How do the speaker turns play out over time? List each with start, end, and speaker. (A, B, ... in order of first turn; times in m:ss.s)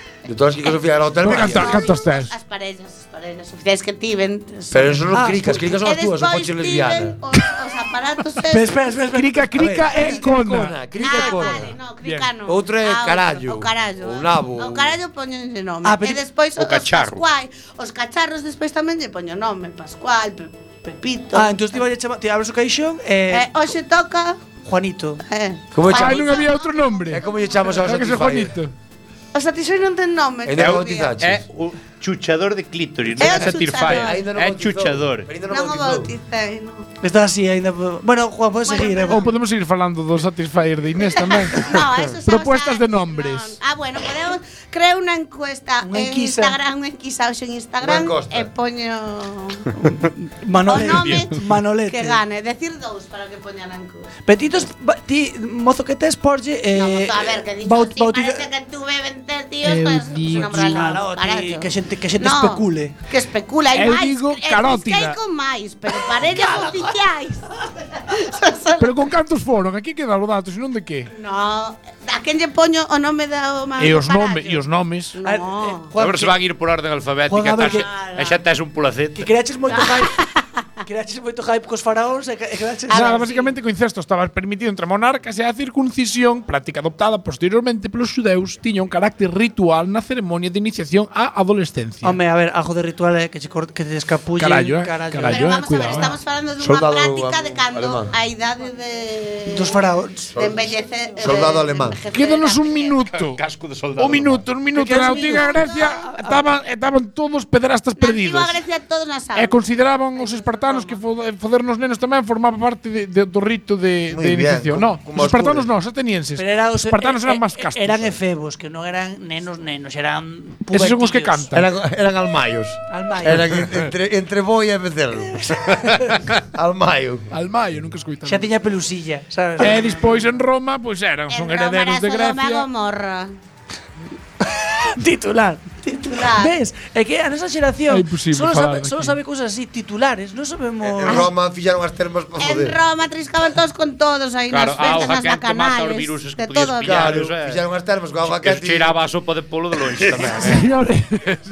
0:00.3-0:01.9 A
0:01.2-0:02.3 B
0:01.2-0:08.8 C
0:04.7-0:07.2 A
0:05.1-0:05.5 D
0:08.5-0:10.2 D
0:09.1-0:11.4 B
0:09.6-0:11.7 A
0:11.0-0:21.9 C
0:12.0-0:12.3 B
0:12.5-0:15.0 A
0:15.8-0:16.2 D
0:16.6-0:17.2 E
0:21.3-0:23.5 D
0:23.3-0:24.4 C
0:24.6-0:25.2 D
0:25.3-0:27.7 C
0:25.7-0:26.4 A
0:25.8-0:27.2 B
0:27.1-0:28.5 A
0:27.8-0:28.7 B
0:29.3-0:31.2 C
0:30.4-0:31.4 A
0:30.6-0:35.3 E
0:33.2-0:34.2 C
0:33.5-0:36.1 A
0:35.5-0:36.9 C
0:37.0-0:39.3 D
0:38.6-0:39.3 C
0:39.1-0:43.6 B
0:41.2-0:49.7 C
0:45.8-0:46.6 D
0:47.8-0:48.5 A
0:49.8-0:52.2 D
0:50.6-0:54.1 C
0:50.8-0:51.3 E
0:54.3-0:58.5 D
0:56.8-1:01.7 C
0:59.6-1:03.0 D
1:02.2-1:09.1 C
1:03.7-1:05.2 B
1:06.3-1:06.8 D
1:08.8-1:11.1 B
1:11.1-1:14.6 C
1:13.8-1:15.2 B
1:15.2-1:15.9 C
1:15.2-1:16.4 D
1:16.0-1:19.3 E
1:17.3-1:17.9 D
1:17.8-1:18.3 C
1:19.2-1:20.1 D
1:19.7-1:20.4 C
1:20.8-1:23.4 D
1:22.9-1:23.5 C
1:22.9-1:32.2 B
1:32.0-1:36.0 D
1:34.4-1:36.2 B
1:35.3-1:39.8 C
1:36.6-1:38.1 A
1:39.5-1:40.3 D
1:40.3-1:42.0 A
1:40.4-1:43.0 C
1:42.1-1:43.4 B
1:43.2-1:44.5 E
1:44.0-1:48.6 B
1:44.7-1:46.4 D
1:44.9-1:46.0 C
1:48.0-1:51.0 C
1:49.4-1:58.2 B
1:54.1-1:55.7 A
1:56.4-2:01.5 D
2:00.7-2:01.6 B
2:01.5-2:05.5 A
2:02.9-2:03.6 D
2:06.5-2:07.3 A
2:07.3-2:08.5 B
2:08.2-2:10.3 D
2:09.6-2:12.7 B
2:11.3-2:13.3 C
2:15.0-2:21.3 D
2:15.9-2:16.6 C
2:17.9-2:19.2 B
2:20.8-2:22.8 A
2:22.4-2:27.2 C
2:24.5-2:27.6 E
2:26.8-2:29.0 A
2:28.2-2:30.6 E
2:30.0-2:30.4 A
2:30.4-2:31.4 B